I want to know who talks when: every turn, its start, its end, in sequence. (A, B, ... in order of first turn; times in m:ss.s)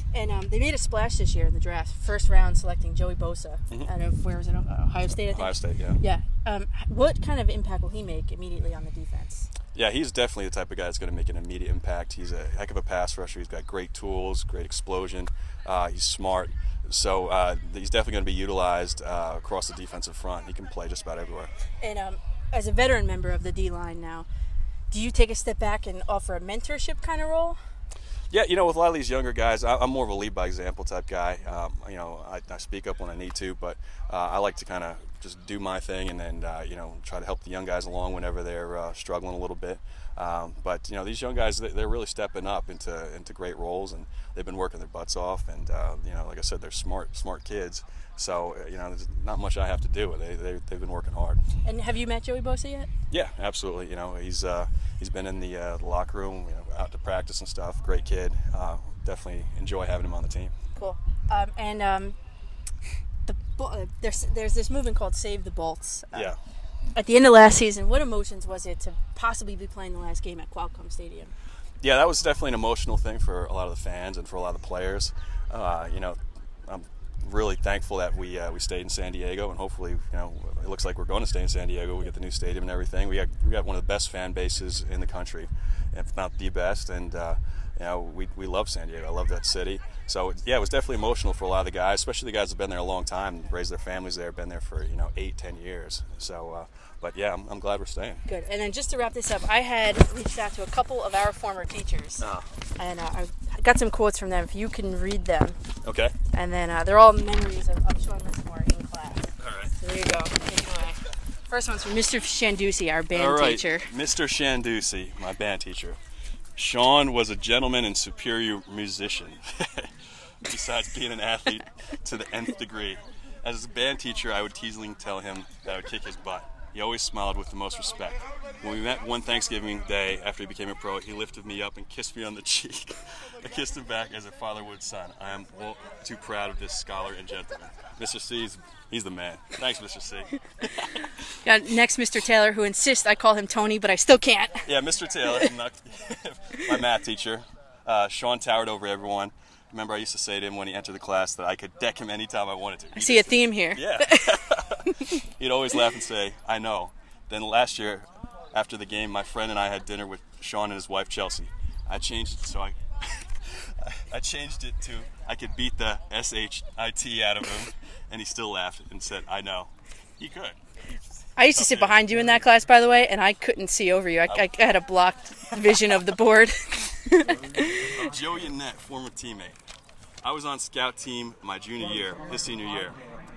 0:00.1-0:09.5 A
0:05.1-0:06.0 B
0:09.8-0:21.5 B
0:21.8-0:24.3 A
0:24.9-0:27.6 A
0:28.3-0:51.4 B
0:51.6-0:52.9 A
0:53.1-1:00.5 B
1:00.8-1:02.2 A
1:03.3-1:06.3 A
1:06.1-1:06.4 B
1:07.0-1:11.3 A
1:11.8-1:38.2 B
1:38.3-1:42.3 A
1:42.2-1:42.5 B
1:42.8-1:45.6 A
1:45.8-1:46.2 B
1:46.3-1:53.9 A
1:49.4-1:49.7 B
1:53.1-1:56.0 B
1:56.6-1:59.9 B
2:00.4-2:21.0 B
2:21.4-2:24.7 A
2:24.6-2:50.6 B
2:33.0-2:34.3 A
2:51.4-2:57.9 A
2:51.5-2:52.1 B
2:57.9-2:59.6 B
3:00.2-3:03.0 B